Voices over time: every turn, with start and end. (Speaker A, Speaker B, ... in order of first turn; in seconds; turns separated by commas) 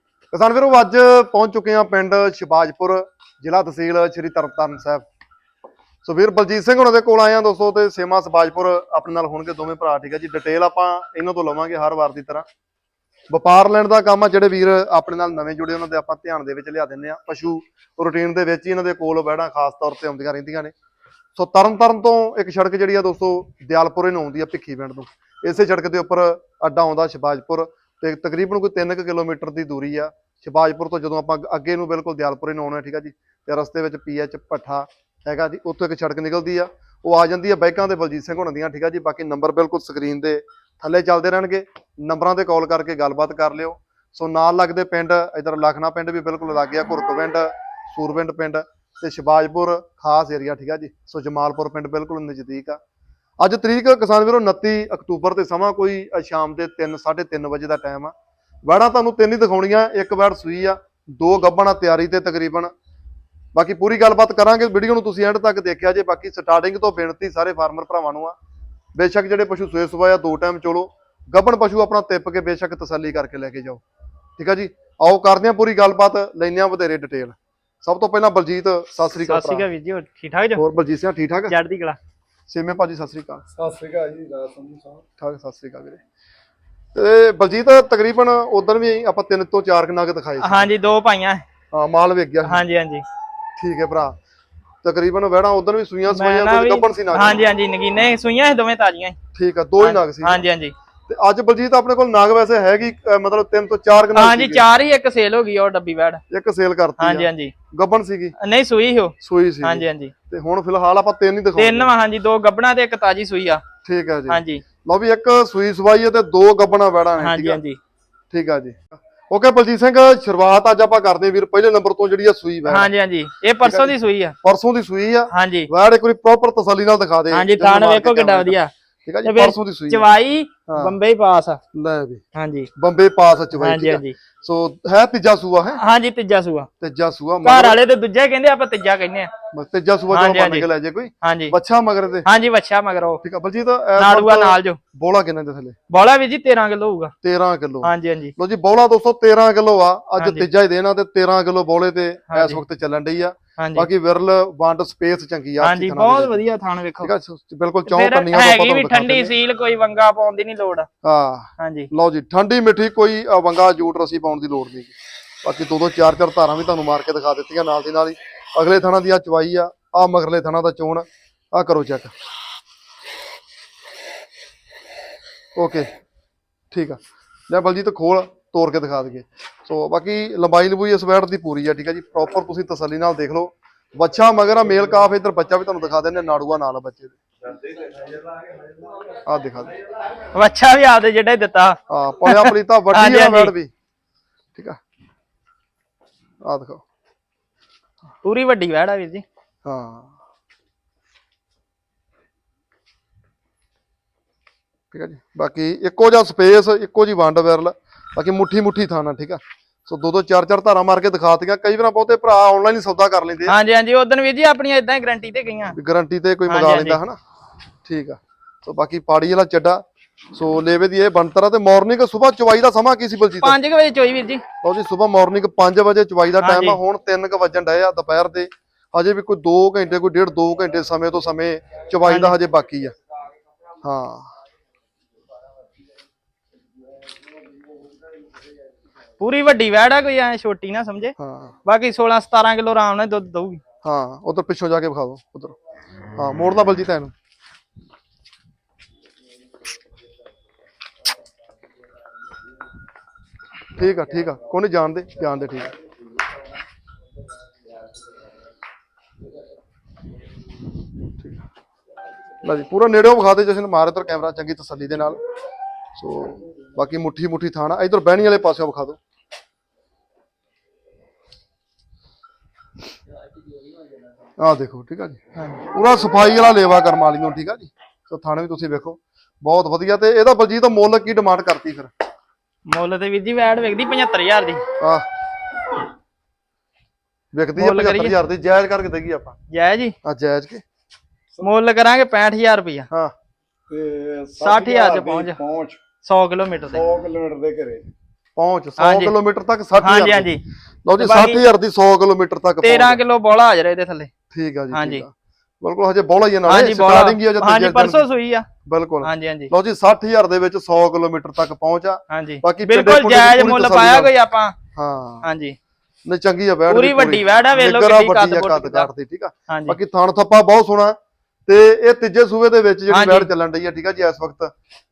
Speaker A: 0.3-5.0, Speaker A: 6.0-12.5, Speaker A: 13.3-20.7, Speaker A: 21.4-52.8, Speaker A: 53.4-62.7, Speaker A: 63.5-68.4, Speaker A: 69.0-73.8, Speaker A: 74.4-79.7, Speaker B: 79.2-80.6, Speaker A: 80.6-81.5, Speaker B: 81.5-82.0, Speaker A: 82.5-83.5, Speaker C: 83.5-85.0, Speaker A: 85.2-86.0, Speaker A: 87.0-90.7, Speaker B: 90.4-91.4, Speaker A: 91.7-92.7, Speaker B: 92.5-93.0, Speaker A: 93.6-94.2, Speaker A: 94.8-97.4, Speaker B: 96.1-99.2, Speaker A: 99.3-100.4, Speaker B: 99.8-100.7, Speaker A: 101.1-104.6, Speaker B: 104.2-106.2, Speaker A: 106.3-108.3, Speaker B: 107.0-107.5, Speaker B: 108.4-110.1, Speaker A: 109.2-111.9, Speaker B: 111.6-113.6, Speaker A: 113.8-117.6, Speaker B: 114.3-114.6, Speaker B: 117.2-117.8, Speaker A: 118.3-122.9, Speaker B: 122.7-124.4, Speaker A: 123.6-130.1, Speaker B: 125.3-125.7, Speaker B: 127.3-128.7, Speaker B: 129.2-131.6, Speaker A: 130.7-131.0, Speaker A: 131.7-132.2, Speaker B: 132.3-132.7, Speaker A: 132.8-135.8, Speaker B: 133.6-134.2, Speaker B: 135.8-136.7, Speaker A: 136.8-137.8, Speaker B: 137.4-139.3, Speaker A: 139.5-142.3, Speaker B: 140.1-140.7, Speaker B: 141.2-141.6, Speaker B: 142.2-143.2, Speaker A: 143.2-145.8, Speaker B: 144.0-144.8, Speaker B: 145.9-147.1, Speaker A: 147.2-156.4, Speaker B: 147.8-148.3, Speaker B: 150.2-150.5, Speaker B: 152.3-152.6, Speaker B: 153.6-153.9, Speaker B: 155.6-157.1, Speaker A: 157.0-159.3, Speaker B: 157.9-160.9, Speaker A: 161.0-172.1, Speaker B: 161.6-161.9, Speaker A: 175.6-175.9, Speaker A: 176.7-187.2, Speaker A: 189.2-189.8, Speaker B: 190.3-193.5, Speaker A: 191.9-193.7, Speaker A: 196.4-196.8, Speaker B: 198.2-199.2, Speaker A: 199.7-200.1, Speaker A: 204.9-213.6, Speaker B: 213.5-215.8, Speaker A: 215.7-217.2, Speaker B: 216.5-217.0, Speaker A: 217.8-223.6, Speaker B: 223.4-224.4, Speaker A: 224.6-232.9, Speaker B: 226.4-226.8, Speaker B: 232.1-232.4, Speaker A: 233.8-234.3, Speaker B: 239.2-241.1, Speaker A: 241.2-241.6, Speaker B: 241.7-243.6, Speaker A: 243.8-245.6, Speaker A: 246.2-247.1, Speaker A: 253.8-255.7, Speaker A: 261.2-261.4, Speaker A: 262.4-265.2, Speaker A: 266.0-269.0, Speaker A: 274.4-281.9, Speaker B: 275.4-275.6, Speaker B: 282.7-284.6, Speaker A: 284.8-285.1, Speaker A: 287.3-289.4, Speaker B: 287.6-288.2, Speaker B: 289.5-290.0, Speaker A: 290.0-290.6, Speaker B: 291.4-292.9, Speaker C: 293.7-295.8, Speaker B: 294.4-295.4, Speaker B: 296.0-296.9, Speaker C: 296.7-297.9, Speaker A: 298.4-303.0, Speaker B: 298.8-299.1, Speaker B: 299.8-300.4, Speaker B: 301.0-301.4, Speaker B: 302.6-304.1, Speaker A: 304.3-308.1, Speaker B: 304.7-305.0, Speaker B: 306.5-308.5, Speaker A: 308.6-314.1, Speaker B: 309.0-309.5, Speaker B: 312.1-314.6, Speaker A: 314.7-315.3, Speaker B: 315.2-315.6, Speaker A: 316.1-321.0, Speaker B: 316.7-318.9, Speaker B: 319.5-319.8, Speaker A: 321.5-324.5, Speaker B: 322.9-323.3